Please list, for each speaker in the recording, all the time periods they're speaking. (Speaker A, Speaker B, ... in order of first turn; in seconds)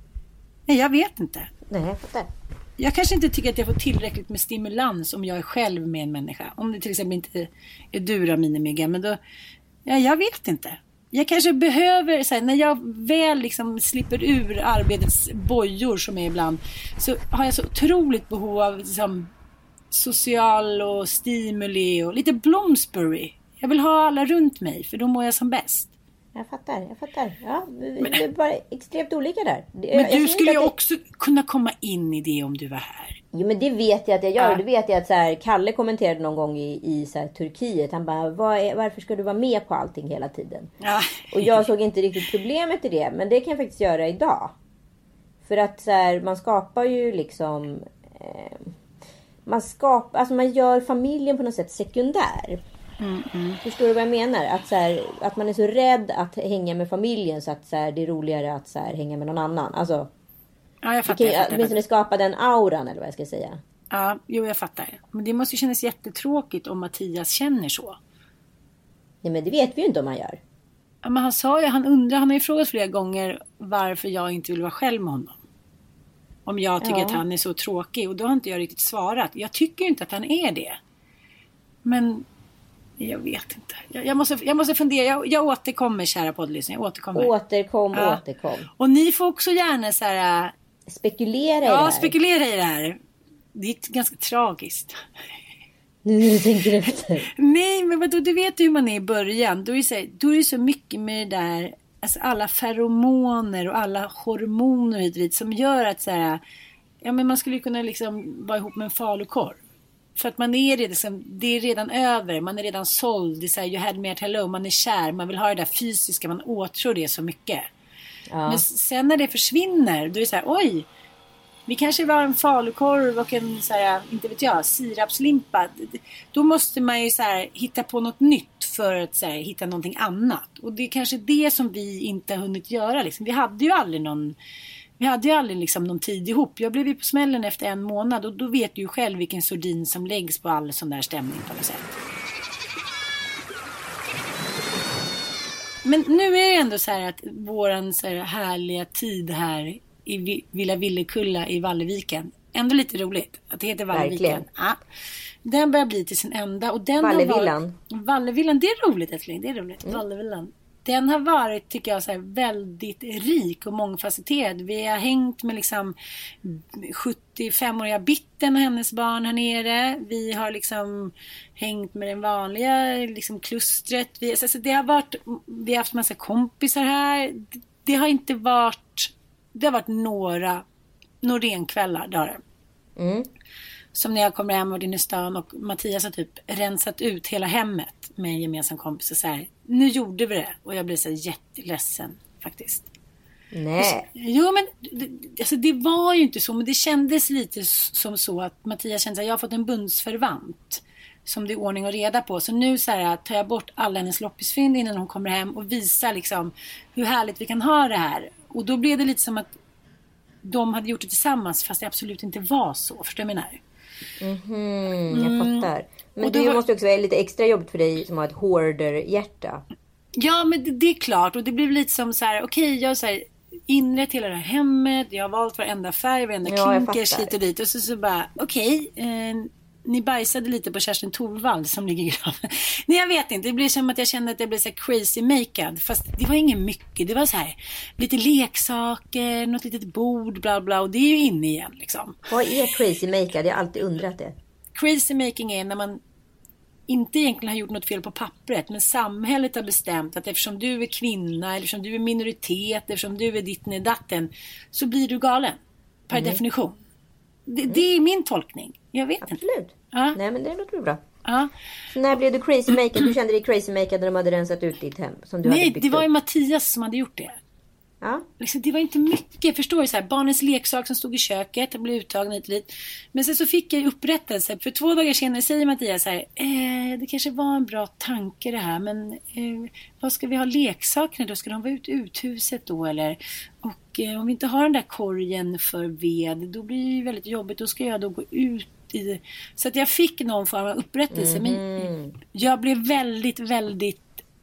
Speaker A: 0.7-1.5, 2.8-9.2, 9.8-19.3, 19.9-25.9, 29.9-33.2, 40.8-41.5, 53.0-53.6, 60.8-61.8, 63.9-68.0, 71.0-75.4, 76.5-80.8, 81.8-82.2, 83.0-87.3, 87.9-88.2, 88.8-90.5, 91.7-93.0, 93.5-95.0, 97.4-106.4, 107.0-109.6, 110.2-117.7, 118.5-120.9, 121.7-134.4, 135.0-141.9, 145.8-154.8, 155.4-180.6, 181.2-182.4, 183.9-192.9, 193.8-209.5, 210.4-213.6, 215.1-215.7, 216.2-216.6, 220.2-242.2, 244.8-246.0, 246.9-256.8, 257.5-259.4, 259.9-260.2, 261.2-261.5, 265.4-267.4, 268.4-294.1
Speaker B: 1.7-2.3, 26.4-30.7, 33.3-40.7, 41.3-44.5, 45.4-48.7, 49.5-52.6, 53.6-60.1, 61.1-63.6, 69.2-70.4, 76.8-77.2, 87.2-88.7, 90.9-92.1, 96.0-97.3, 118.3-118.7, 153.9-154.5, 157.0-157.8, 183.0-183.3, 193.5-194.1, 214.2-219.6, 226.4-227.3, 242.3-244.4, 256.1-256.4, 259.2-261.0, 261.9-266.1, 291.1-292.1